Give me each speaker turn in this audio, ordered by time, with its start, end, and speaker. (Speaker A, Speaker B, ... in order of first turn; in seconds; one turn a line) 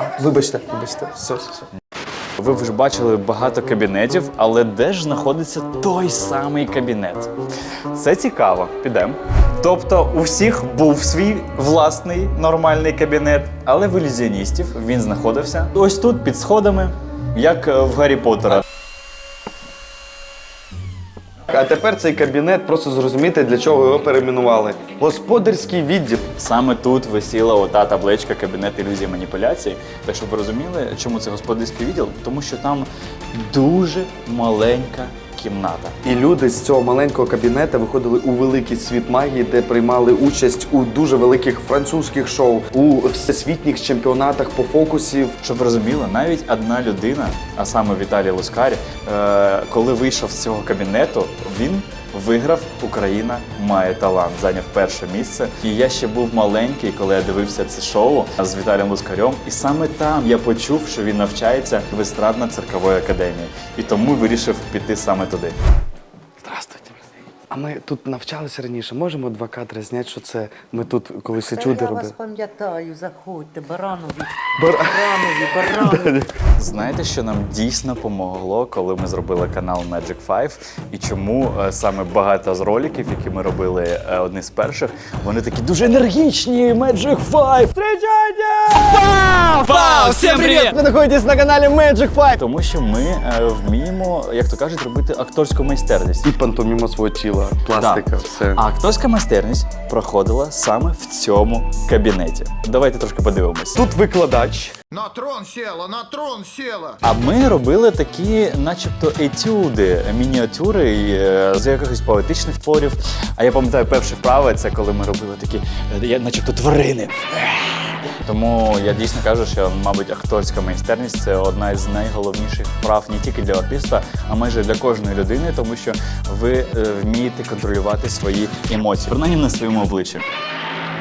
Speaker A: 0.2-1.6
Speaker B: 2.4-7.3
Speaker B: 7.9-18.6
Speaker A: 21.5-26.2
Speaker B: 26.4-36.0
Speaker A: 36.0-45.3
Speaker B: 45.4-65.5
Speaker A: 67.5-72.1
Speaker C: 71.3-76.2
Speaker A: 74.6-75.0
Speaker A: 75.8-76.2
Speaker B: 76.6-88.4
Speaker B: 89.6-90.8
Speaker A: 89.6-92.3
Speaker B: 92.3-96.3
Speaker A: 96.2-98.6
Speaker B: 97.7-103.8
Speaker A: 103.7-104.7
Speaker D: 104.9-107.0
Speaker B: 107.0-130.2